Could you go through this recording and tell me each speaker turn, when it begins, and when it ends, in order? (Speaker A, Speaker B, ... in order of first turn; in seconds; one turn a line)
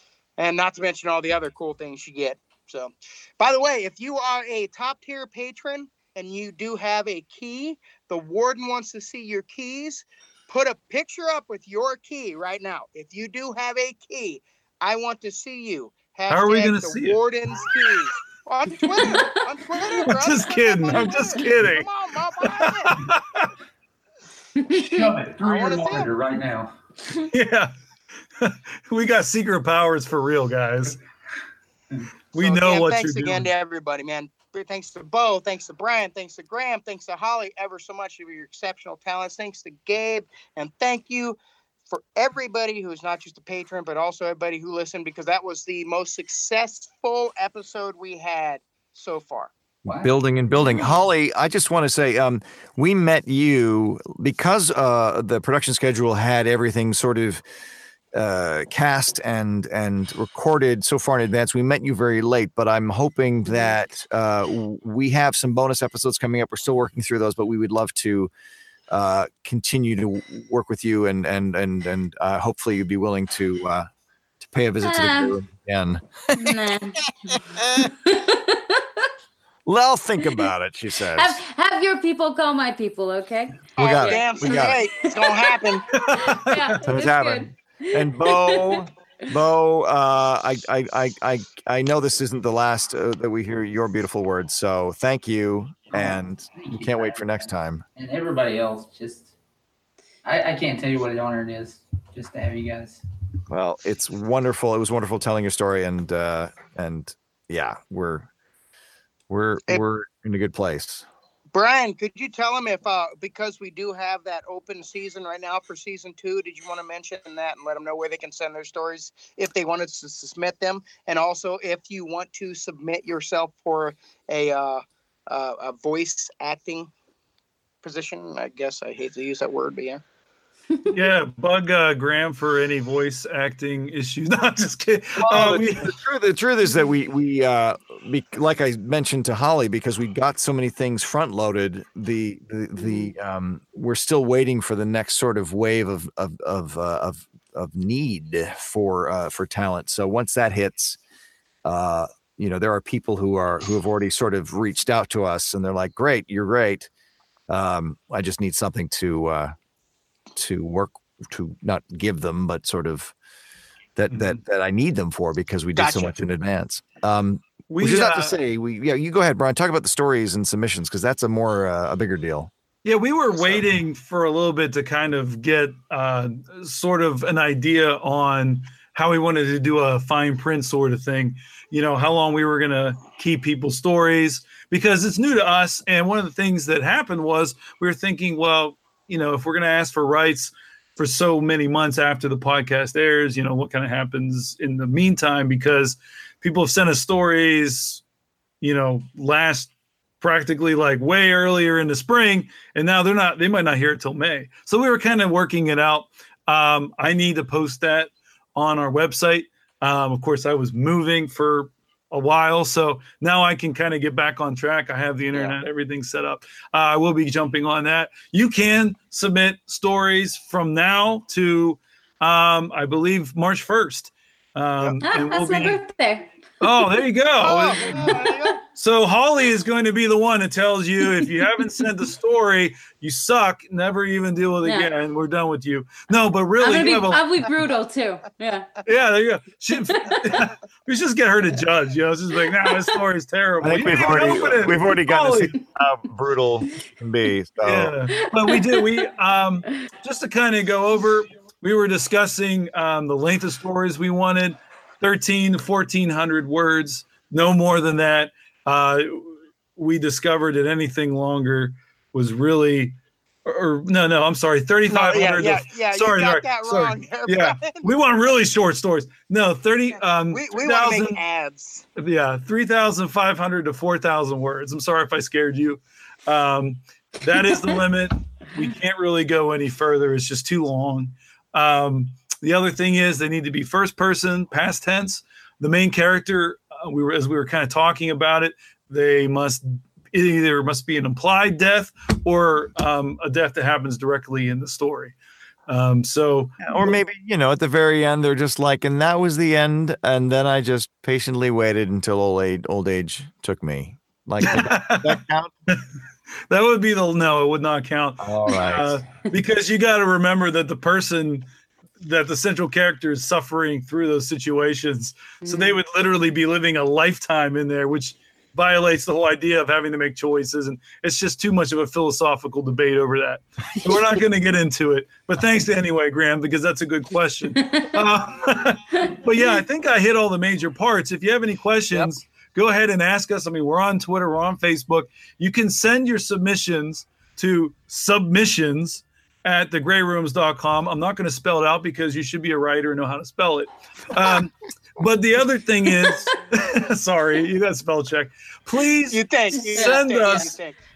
Speaker A: 0.4-22.9
Speaker B: 16.3-17.2
Speaker C: 18.9-19.3
Speaker B: 20.0-21.9
Speaker C: 20.9-21.3
Speaker B: 22.4-23.5
Speaker C: 24.6-25.1
Speaker D: 24.7-26.7
Speaker A: 25.4-26.1
Speaker B: 27.2-27.7
Speaker B: 28.4-31.0
Speaker B: 32.3-33.5
Speaker A: 32.3-41.4
Speaker A: 41.9-49.5
Speaker D: 49.8-50.1
Speaker E: 49.9-57.4
Speaker E: 58.1-68.3
Speaker E: 68.9-73.9
Speaker E: 74.4-76.6
Speaker C: 74.8-75.4
Speaker C: 76.3-79.0
Speaker E: 77.3-77.9
Speaker E: 79.7-81.4
Speaker C: 81.1-85.2
Speaker E: 83.8-84.8
Speaker A: 83.8-86.1
Speaker B: 86.0-86.7
Speaker C: 86.1-88.8
Speaker E: 86.8-97.8
Speaker D: 95.9-99.3
Speaker D: 100.2-103.0
Speaker E: 103.5-108.3
Speaker E: 109.3-111.0
Speaker A: 111.5-126.9
Speaker A: 127.8-130.0
Speaker B: 130.9-135.9
Speaker E: 135.2-151.0
Speaker E: 151.6-156.9
Speaker E: 157.5-159.5
Speaker E: 160.3-163.1
Speaker E: 163.9-172.5
Speaker B: 164.1-164.4
Speaker A: 165.8-166.2
Speaker B: 167.7-168.4
Speaker B: 172.8-198.0
Speaker B: 198.6-225.8
Speaker C: 225.0-227.0
Speaker B: 226.6-237.5
Speaker A: 227.4-228.6
Speaker C: 227.8-228.3
Speaker C: 231.0-231.8
Speaker C: 234.6-234.9
Speaker C: 236.6-238.7
Speaker B: 238.8-245.6
Speaker E: 243.6-247.9
Speaker B: 247.6-271.2
Speaker C: 248.1-249.1
Speaker A: 264.9-267.9
Speaker A: 270.2-271.9
Speaker B: 271.9-295.1
Speaker B: 295.7-297.0
Speaker E: 296.6-305.5
Speaker B: 304.4-305.8
Speaker B: 306.5-311.4
Speaker E: 308.2-309.0
Speaker B: 312.0-350.6
Speaker C: 315.4-315.8
Speaker C: 327.6-327.9
Speaker A: 349.1-350.8
Speaker C: 349.5-350.5